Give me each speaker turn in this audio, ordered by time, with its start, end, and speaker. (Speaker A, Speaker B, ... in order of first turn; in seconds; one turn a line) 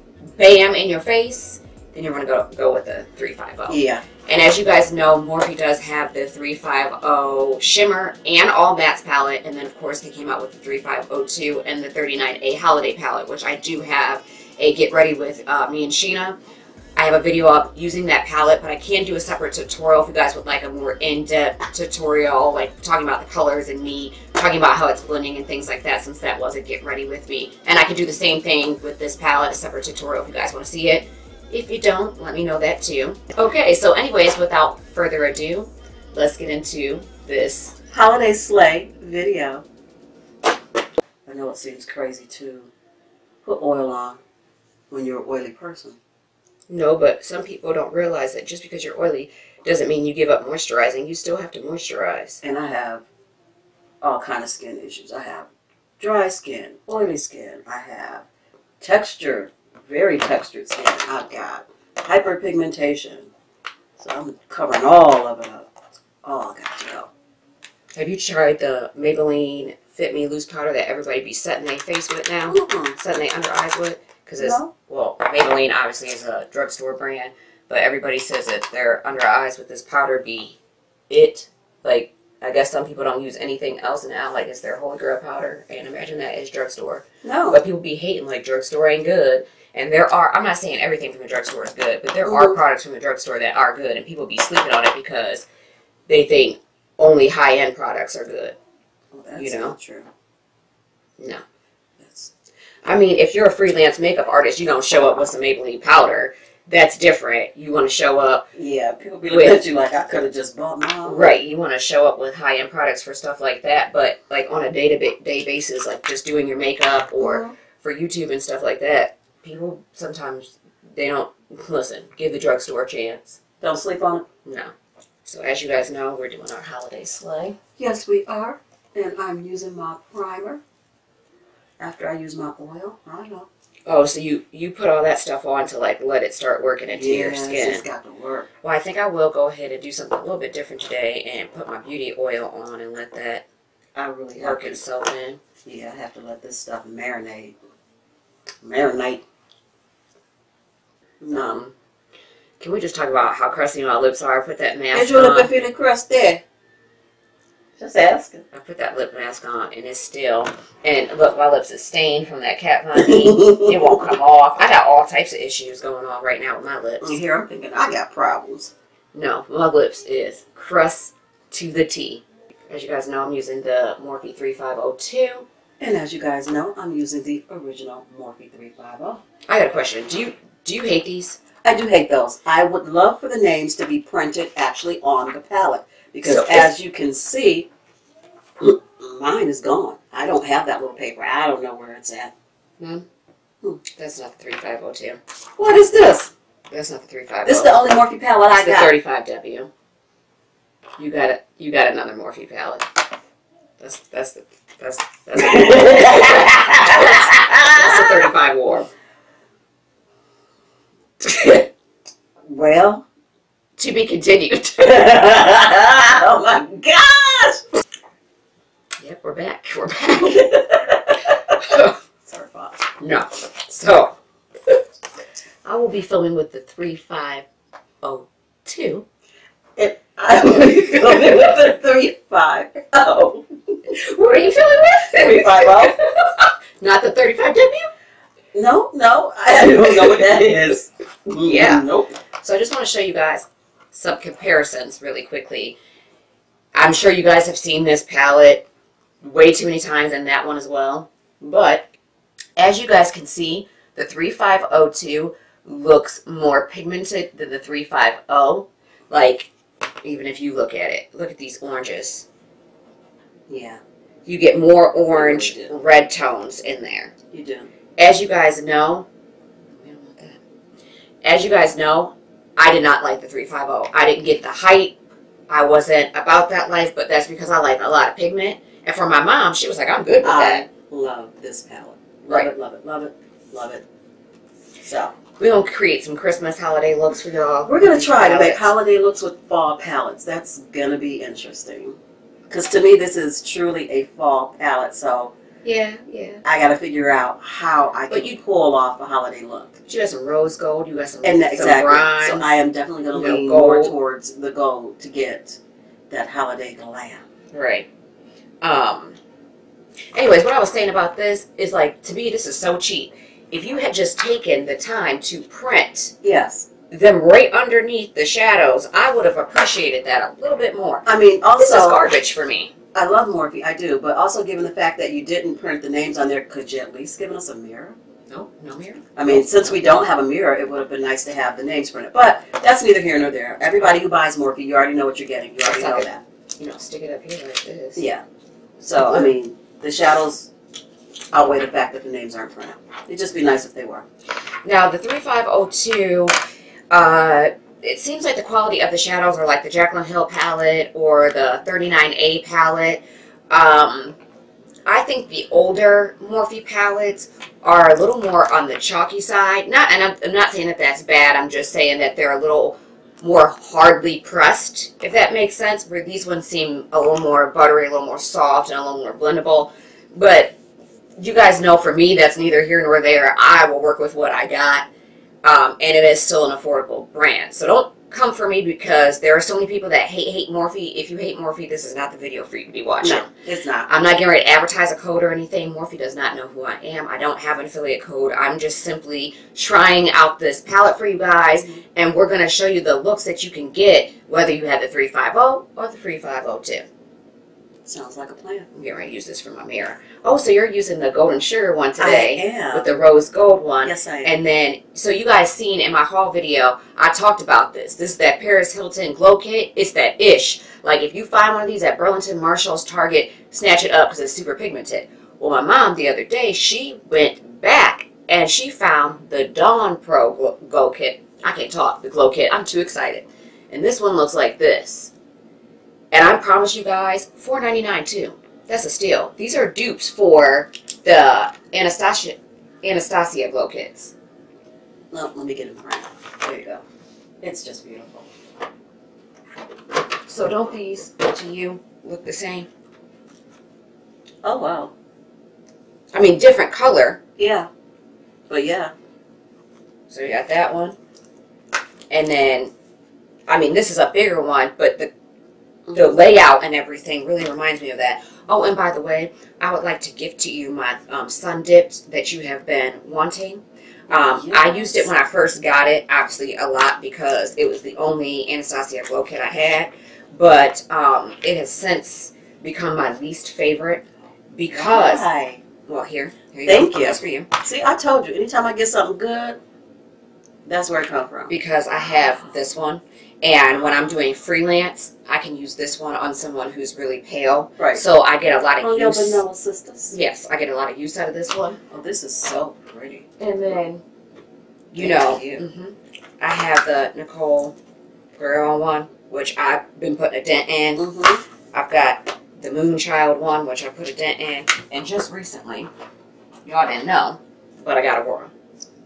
Speaker A: 0.3-16.4
Speaker B: 3.7-4.0
Speaker A: 16.9-37.8
Speaker B: 37.9-39.6
Speaker B: 41.2-42.7
Speaker B: 43.4-44.2
Speaker B: 44.9-46.0
Speaker A: 46.7-52.4
Speaker B: 52.4-53.1
Speaker B: 54.0-55.5
Speaker B: 56.0-58.2
Speaker B: 58.8-63.3
Speaker B: 64.0-65.7
Speaker B: 66.2-67.1
Speaker A: 67.9-80.6
Speaker B: 72.5-73.0
Speaker B: 74.4-74.7
Speaker A: 81.1-95.5
Speaker B: 87.2-87.6
Speaker B: 92.2-92.6
Speaker A: 96.1-98.6
Speaker B: 99.1-100.1
Speaker A: 99.4-99.8
Speaker B: 102.0-102.3
Speaker A: 102.8-108.5
Speaker B: 108.5-111.3
Speaker A: 109.3-109.6
Speaker A: 111.0-123.4
Speaker B: 117.2-117.5
Speaker B: 123.6-124.2
Speaker A: 124.4-124.7
Speaker A: 125.2-127.6
Speaker B: 127.8-130.6
Speaker B: 131.8-133.5
Speaker A: 133.9-137.8
Speaker B: 136.9-138.5
Speaker A: 138.6-143.4
Speaker B: 143.9-144.8
Speaker A: 144.4-145.4
Speaker B: 145.6-147.6
Speaker B: 148.6-149.2
Speaker B: 151.2-151.6
Speaker A: 151.3-151.7
Speaker A: 152.6-155.5
Speaker B: 154.9-156.4
Speaker B: 157.8-158.4
Speaker A: 158.5-167.2
Speaker B: 163.0-164.1
Speaker B: 167.0-168.7
Speaker A: 169.1-175.4
Speaker B: 175.8-179.2
Speaker A: 179.5-181.4
Speaker B: 181.6-187.7
Speaker A: 186.2-186.7
Speaker B: 188.6-192.3
Speaker A: 192.8-193.1
Speaker A: 193.9-195.2
Speaker B: 195.6-196.3
Speaker A: 196.7-197.9
Speaker B: 197.4-198.9
Speaker A: 198.5-199.7
Speaker A: 201.0-202.9
Speaker A: 203.8-208.9
Speaker B: 205.4-208.3
Speaker A: 211.2-211.7
Speaker B: 212.5-213.1
Speaker A: 213.8-215.2
Speaker B: 214.8-217.6
Speaker A: 219.0-220.4
Speaker B: 220.0-222.9
Speaker A: 221.6-221.9
Speaker A: 223.0-224.1
Speaker A: 225.6-227.4
Speaker A: 228.0-229.1
Speaker B: 229.8-233.4
Speaker A: 233.9-237.9
Speaker B: 235.1-236.0
Speaker B: 238.5-242.1
Speaker A: 241.4-241.8
Speaker A: 242.4-245.8
Speaker A: 246.8-248.7
Speaker A: 249.2-251.9
Speaker A: 252.6-259.5
Speaker A: 260.0-262.2
Speaker B: 263.5-263.8
Speaker A: 264.2-267.1
Speaker B: 265.1-265.7
Speaker B: 267.3-267.7
Speaker A: 268.0-269.1
Speaker A: 269.7-270.4
Speaker A: 271.2-274.9
Speaker A: 275.5-280.6
Speaker B: 280.2-283.8
Speaker B: 284.8-285.1
Speaker A: 285.4-288.7
Speaker B: 287.6-292.0
Speaker B: 292.5-295.3
Speaker A: 295.6-296.4
Speaker B: 296.4-299.8
Speaker A: 298.1-298.4
Speaker A: 299.9-302.5
Speaker B: 301.2-305.6
Speaker A: 303.1-303.9
Speaker B: 306.1-307.2
Speaker A: 307.5-307.9
Speaker A: 308.6-309.2
Speaker A: 310.1-316.1
Speaker B: 316.2-316.7
Speaker A: 316.9-321.1
Speaker B: 321.1-322.0
Speaker A: 321.6-322.7
Speaker B: 322.9-328.0
Speaker A: 328.3-329.8
Speaker B: 329.1-336.2
Speaker A: 335.6-338.1
Speaker B: 337.9-338.2
Speaker B: 338.8-340.5
Speaker A: 339.0-339.3
Speaker B: 341.3-344.1
Speaker A: 344.6-346.3
Speaker A: 346.9-354.2
Speaker A: 354.9-370.6
Speaker A: 371.2-374.9
Speaker A: 375.4-383.3
Speaker B: 383.0-383.9
Speaker A: 383.9-396.9
Speaker B: 391.6-391.8
Speaker B: 397.9-398.7
Speaker A: 398.7-425.1
Speaker B: 402.0-402.9
Speaker B: 403.8-404.3
Speaker A: 426.1-434.1
Speaker B: 435.1-436.8
Speaker B: 437.4-438.3
Speaker A: 440.3-442.7
Speaker B: 444.4-444.9
Speaker A: 446.1-447.2
Speaker B: 447.4-447.7
Speaker B: 448.5-448.9
Speaker A: 450.1-451.0
Speaker A: 452.1-452.7
Speaker A: 453.5-455.1
Speaker B: 455.9-456.2
Speaker A: 455.9-475.2
Speaker B: 464.1-465.1
Speaker B: 474.7-475.6
Speaker A: 475.9-477.5
Speaker B: 476.6-479.6
Speaker B: 480.6-481.5
Speaker A: 481.5-489.4
Speaker B: 487.8-488.0
Speaker B: 488.8-490.2
Speaker A: 490.1-491.8
Speaker B: 491.9-493.2
Speaker A: 493.4-494.0
Speaker A: 494.9-497.8
Speaker B: 494.9-495.6
Speaker A: 498.3-501.1
Speaker B: 501.0-501.4
Speaker A: 501.7-505.9
Speaker A: 506.6-508.5